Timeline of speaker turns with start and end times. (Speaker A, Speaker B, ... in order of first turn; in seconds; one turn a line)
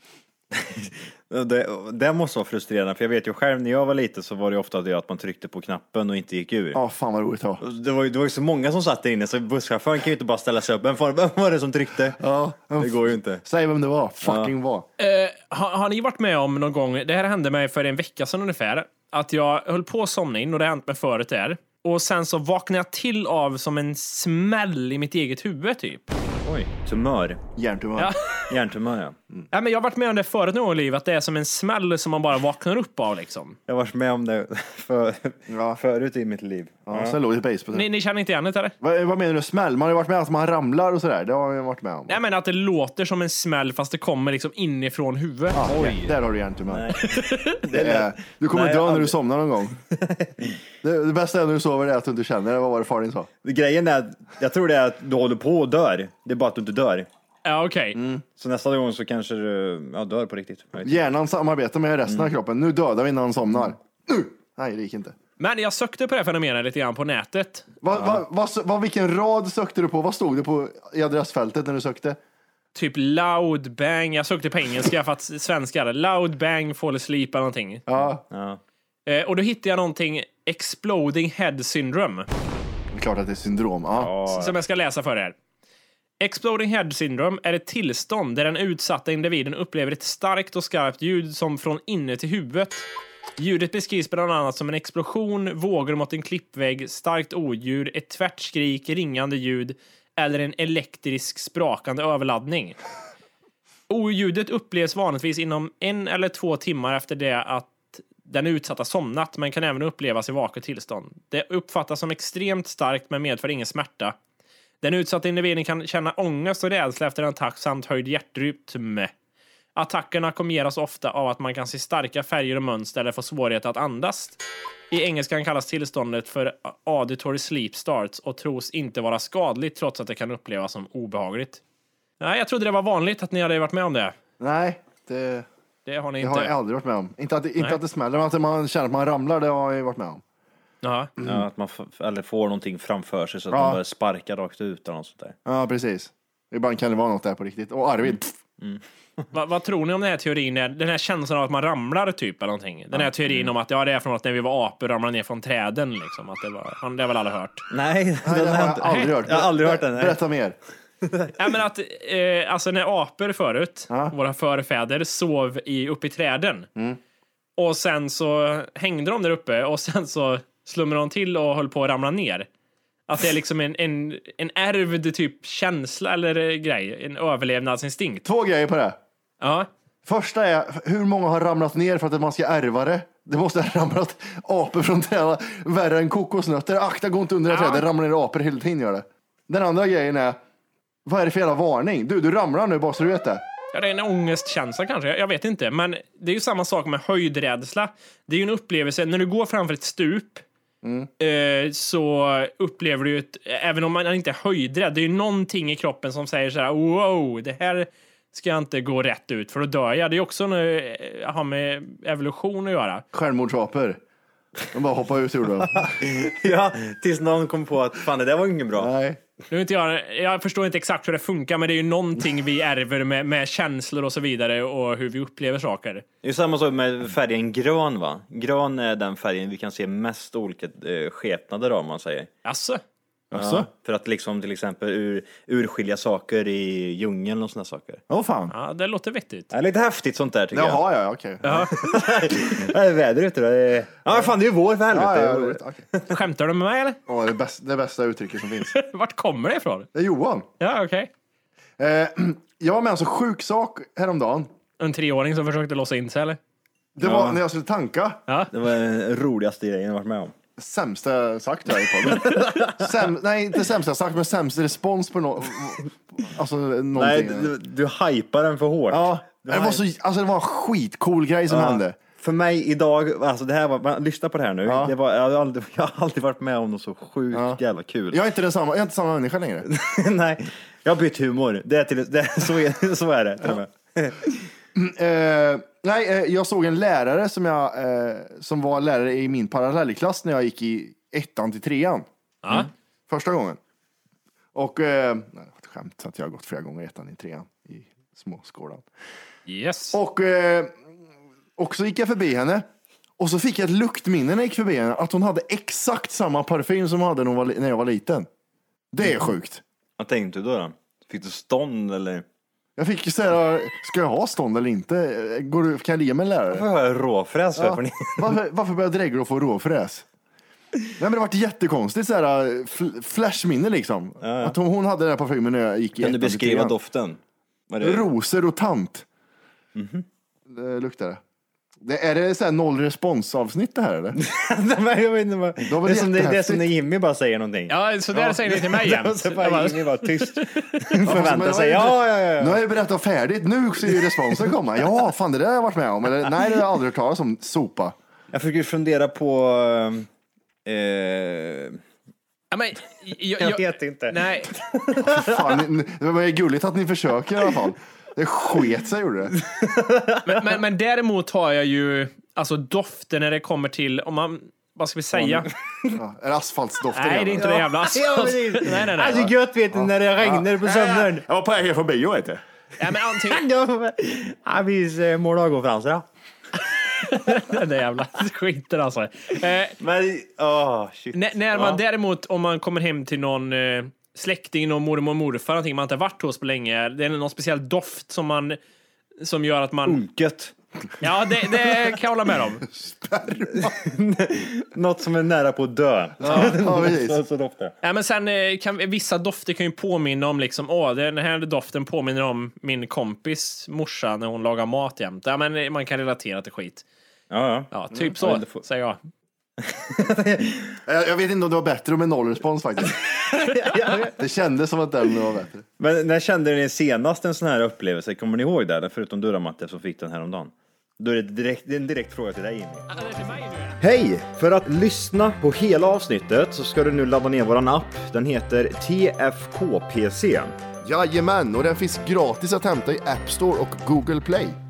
Speaker A: 0.5-6.8
Speaker B: 6.7-7.6
Speaker A: 7.6-12.2
Speaker B: 12.2-14.9
Speaker A: 12.8-13.4
Speaker A: 14.2-14.5
Speaker C: 15.0-26.1
Speaker A: 26.4-27.4
Speaker B: 27.6-28.1
Speaker C: 28.0-28.5
Speaker A: 28.5-29.1
Speaker C: 29.5-33.6
Speaker A: 33.7-37.2
Speaker B: 35.5-35.8
Speaker B: 36.9-37.9
Speaker C: 37.7-38.7
Speaker B: 38.8-42.2
Speaker C: 42.1-45.7
Speaker B: 45.5-46.9
Speaker A: 45.7-46.1
Speaker A: 46.7-49.1
Speaker C: 47.0-47.6
Speaker B: 47.7-49.8
Speaker A: 49.9-50.6
Speaker B: 50.8-53.3
Speaker A: 53.4-57.1
Speaker C: 57.4-58.0
Speaker B: 58.0-58.2
Speaker A: 58.4-61.0
Speaker B: 60.8-65.2
Speaker C: 65.4-67.8
Speaker B: 67.8-72.2
Speaker C: 72.7-77.8
Speaker B: 77.9-78.2
Speaker A: 78.3-78.6
Speaker C: 79.1-82.3
Speaker B: 82.9-84.1
Speaker A: 84.0-84.5
Speaker C: 84.3-85.3
Speaker C: 86.2-92.8
Speaker C: 93.4-102.8
Speaker C: 103.9-114.1
Speaker C: 114.8-119.1
Speaker C: 119.7-124.4
Speaker C: 124.9-131.6
Speaker C: 132.2-134.1
Speaker B: 134.4-135.5
Speaker C: 135.8-136.5
Speaker B: 136.2-140.2
Speaker C: 140.8-141.1
Speaker B: 141.2-141.4
Speaker A: 141.2-145.3
Speaker B: 143.5-143.8
Speaker B: 145.4-148.3
Speaker A: 148.6-149.2
Speaker C: 149.3-157.6
Speaker A: 152.9-153.5
Speaker A: 157.7-160.2
Speaker B: 158.2-160.6
Speaker A: 161.0-161.3
Speaker C: 161.4-166.7
Speaker C: 167.6-172.5
Speaker C: 173.1-178.2
Speaker B: 178.2-179.0
Speaker C: 179.4-179.7
Speaker B: 180.0-190.4
Speaker C: 187.5-187.8
Speaker B: 191.0-193.4
Speaker C: 193.7-200.4
Speaker B: 200.8-201.1
Speaker C: 201.2-213.0
Speaker B: 213.1-214.0
Speaker B: 214.7-216.0
Speaker A: 215.7-218.9
Speaker B: 218.7-219.2
Speaker C: 219.5-226.0
Speaker A: 226.2-232.3
Speaker C: 232.4-232.8
Speaker B: 233.3-233.7
Speaker A: 233.3-238.0
Speaker B: 238.1-238.5
Speaker C: 238.5-239.5
Speaker A: 239.5-240.8
Speaker B: 240.5-241.8
Speaker C: 241.4-241.7
Speaker A: 241.7-246.0
Speaker B: 244.9-245.9
Speaker C: 246.1-247.0
Speaker B: 247.1-248.7
Speaker C: 248.7-249.9
Speaker B: 249.9-250.5
Speaker C: 250.6-251.1
Speaker B: 251.8-254.5
Speaker C: 254.8-256.4
Speaker B: 256.9-258.2
Speaker A: 257.0-257.4
Speaker A: 258.5-260.3
Speaker B: 260.6-267.5
Speaker A: 262.1-262.9
Speaker A: 266.9-269.8
Speaker B: 268.9-271.9
Speaker A: 271.5-278.2
Speaker B: 274.6-274.9
Speaker B: 277.3-279.6
Speaker A: 279.6-284.4
Speaker B: 284.7-292.1
Speaker C: 292.4-292.7
Speaker B: 293.1-293.6
Speaker B: 294.5-298.8
Speaker C: 299.5-299.9
Speaker B: 299.9-300.7
Speaker B: 301.6-302.7
Speaker B: 303.2-308.3
Speaker B: 308.9-309.6
Speaker A: 310.0-312.2
Speaker B: 312.8-316.6
Speaker A: 316.5-318.4
Speaker B: 317.6-320.1
Speaker B: 321.0-326.7
Speaker A: 324.2-324.6
Speaker A: 326.0-327.2
Speaker A: 327.7-328.1
Speaker B: 327.8-329.1
Speaker A: 329.7-330.0
Speaker B: 330.5-331.2
Speaker B: 331.8-334.2
Speaker A: 334.2-342.6
Speaker B: 335.6-336.6
Speaker C: 337.7-340.8
Speaker B: 341.0-347.9
Speaker A: 343.9-344.5
Speaker A: 348.3-350.1
Speaker A: 350.6-351.8
Speaker C: 352.5-354.5
Speaker A: 353.4-355.6
Speaker B: 355.0-359.3
Speaker A: 359.4-360.5
Speaker C: 360.2-365.5
Speaker A: 365.1-366.0
Speaker B: 365.9-367.6
Speaker C: 366.9-369.3
Speaker A: 367.4-371.2
Speaker B: 369.1-372.4
Speaker C: 372.8-373.4
Speaker A: 373.1-376.1
Speaker C: 376.8-379.7
Speaker A: 379.8-381.8
Speaker C: 381.1-388.6
Speaker C: 389.2-390.0
Speaker A: 389.9-390.5
Speaker C: 391.0-392.7
Speaker B: 392.7-393.8
Speaker A: 393.5-397.7
Speaker B: 396.2-397.2
Speaker C: 397.8-406.8
Speaker A: 407.3-408.6
Speaker C: 407.7-409.0
Speaker A: 409.6-410.8
Speaker B: 410.9-413.0
Speaker A: 413.3-414.1
Speaker B: 413.9-415.6
Speaker A: 415.8-422.9
Speaker C: 422.9-423.8
Speaker A: 423.8-430.5
Speaker B: 430.8-434.6